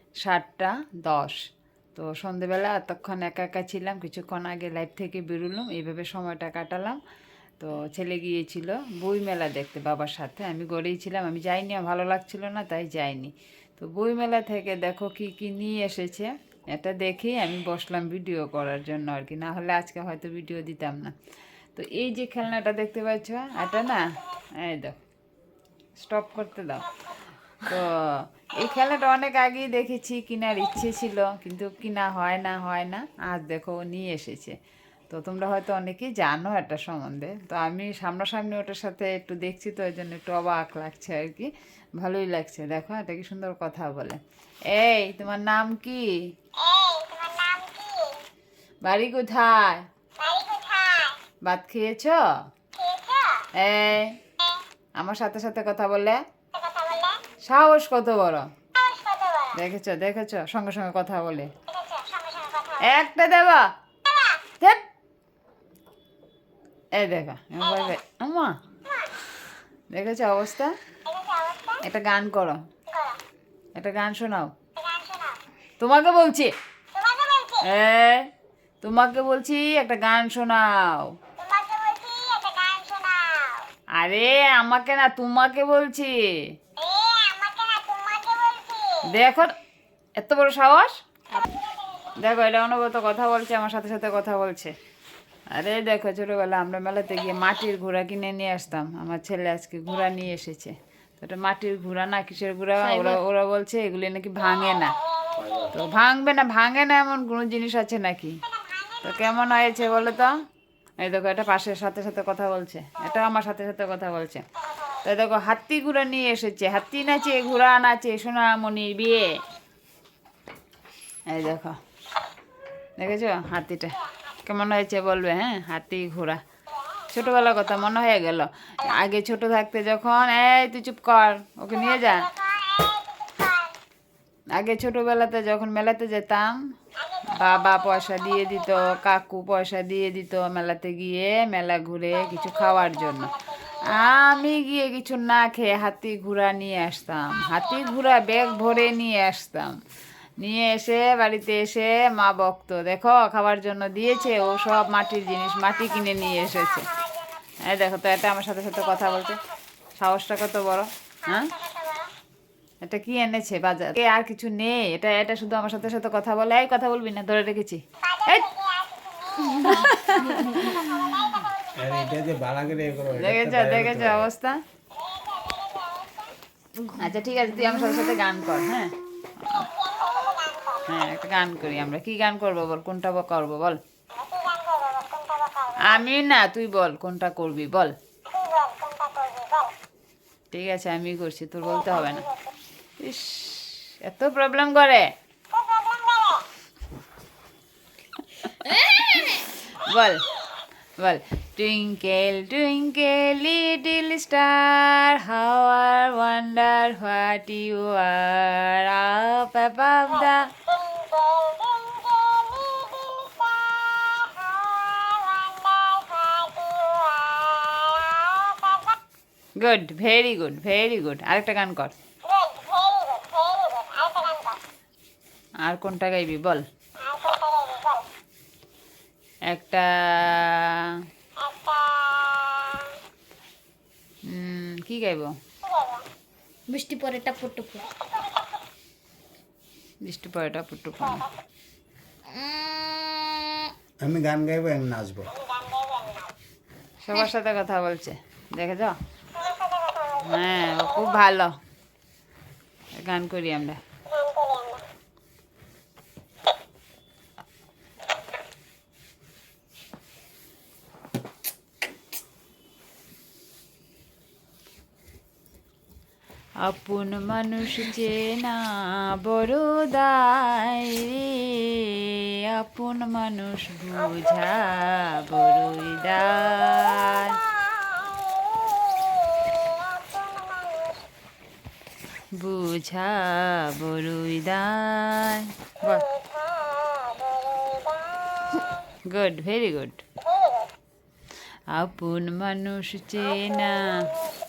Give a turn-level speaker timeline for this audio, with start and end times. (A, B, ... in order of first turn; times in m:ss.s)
0:00.2-0:01.4 A
0:02.0-0:07.0 A
0:07.6-0:21.2 A
0:21.7-0:25.0 A
0:26.0-0:26.8 A
0:27.6-0:34.6 A
0:35.1-0:46.2 A
0:48.8-0:49.8 A
0:51.4-0:52.2 A
0:53.5-0:54.2 A
0:55.0-0:56.2 A
0:57.4-0:58.5 A
0:59.5-1:01.5 A
1:02.6-1:03.7 A
1:07.0-1:08.5 A
1:09.9-1:10.7 A
1:11.7-1:12.6 A
1:13.8-1:14.5 A
1:15.8-1:16.5 A
1:17.4-1:18.3 A
1:18.8-1:21.1 A
1:24.0-1:26.5 A
1:29.0-1:29.5 A
1:30.2-1:31.0 A
1:32.2-1:34.7 A
1:35.5-1:44.9 A
1:42.8-1:43.2 B
1:45.4-1:45.7 C
1:45.7-1:48.4 A
1:49.0-1:50.3 A
1:51.0-1:54.4 A
1:55.0-1:59.4 A
2:01.3-2:01.8 A
2:03.0-2:06.4 A
2:07.1-2:12.3 A
2:14.5-2:16.6 A
2:17.4-2:23.3 A
2:23.9-2:29.8 A
2:30.4-2:36.9 A
2:37.6-2:39.4 A
2:40.0-2:41.5 A
2:42.8-2:48.6 A
2:49.4-2:51.5 A
2:51.8-2:54.3 C
2:53.1-2:54.6 A
2:56.8-2:59.7 A
3:00.7-3:03.8 A
3:05.8-3:07.9 A
3:10.5-3:12.3 A
3:13.0-3:15.1 A
3:18.4-3:20.2 A
3:21.0-3:30.5 A
3:39.6-3:41.9 A
3:45.6-3:46.6 A
3:49.5-3:50.9 A
3:54.3-3:55.3 A
3:56.7-3:57.8 B
4:00.0-4:01.3 A
4:02.3-4:03.7 B
4:04.0-4:05.3 C
4:07.0-4:08.9 A
4:10.1-4:11.5 A
4:12.9-4:13.8 A
4:26.6-4:37.4 A
4:42.3-4:46.1 A
4:49.1-4:50.0 A
4:51.7-4:54.1 A